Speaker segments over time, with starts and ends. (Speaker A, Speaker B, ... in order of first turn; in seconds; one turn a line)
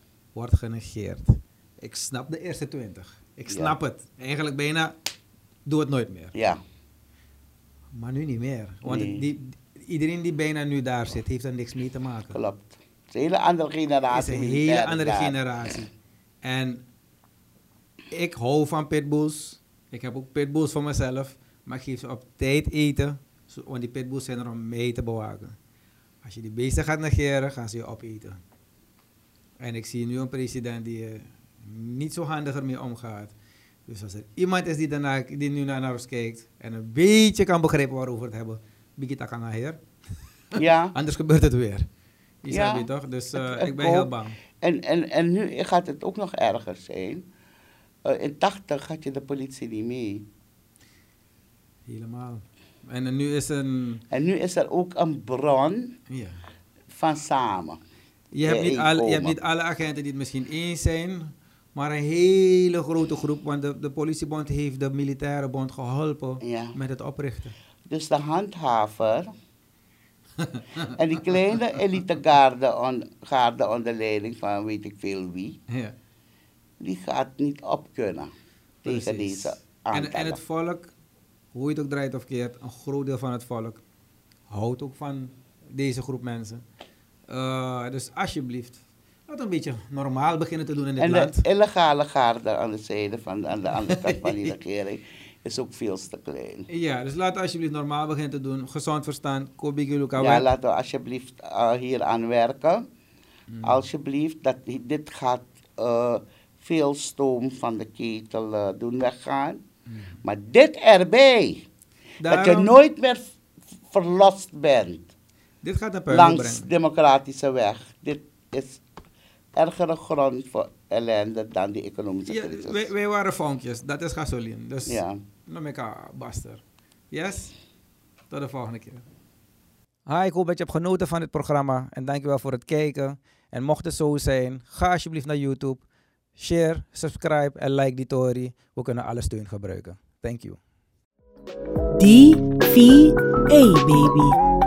Speaker A: 0.3-4.9
Speaker B: 3.5-3.8
Speaker A: 5.7-6.3
Speaker B: 6.3-6.6
Speaker A: 7.9-12.4
Speaker B: 8.8-9.2
Speaker B: 12.3-15.4
Speaker A: 14.1-15.9
Speaker A: 16.4-16.8
Speaker A: 18.1-25.6
Speaker A: 26.2-28.4
Speaker A: 29.6-33.3
Speaker A: 33.9-39.8
Speaker A: 40.5-41.9
Speaker B: 40.5-40.9
Speaker A: 42.4-44.4
Speaker B: 42.5-47.2
Speaker B: 48.0-50.2
Speaker A: 51.9-54.0
Speaker B: 54.1-55.9
Speaker A: 56.1-56.4
Speaker B: 56.9-57.8
Speaker A: 58.3-67.5
Speaker B: 58.4-59.4
Speaker B: 66.4-66.8
Speaker B: 67.8-69.3
Speaker A: 70.4-71.0
Speaker B: 71.0-75.6
Speaker A: 75.7-76.0
Speaker B: 76.8-78.3
Speaker B: 78.8-80.4
Speaker A: 78.8-80.9
Speaker A: 81.5-83.8
Speaker A: 84.5-86.6
Speaker A: 87.3-91.4
Speaker B: 91.0-96.7
Speaker A: 93.8-94.5
Speaker A: 96.7-100.5
Speaker B: 100.2-102.8
Speaker A: 103.5-103.8
Speaker B: 103.6-109.6
Speaker B: 110.2-111.6
Speaker A: 112.2-112.7
Speaker B: 112.3-113.3
Speaker B: 113.9-115.1
Speaker A: 115.6-116.7
Speaker B: 116.1-118.8
Speaker B: 119.5-122.9
Speaker A: 122.3-127.5
Speaker B: 124.8-125.2
Speaker A: 128.3-129.0
Speaker A: 130.1-135.8
Speaker A: 136.3-140.6
Speaker C: 141.9-144.4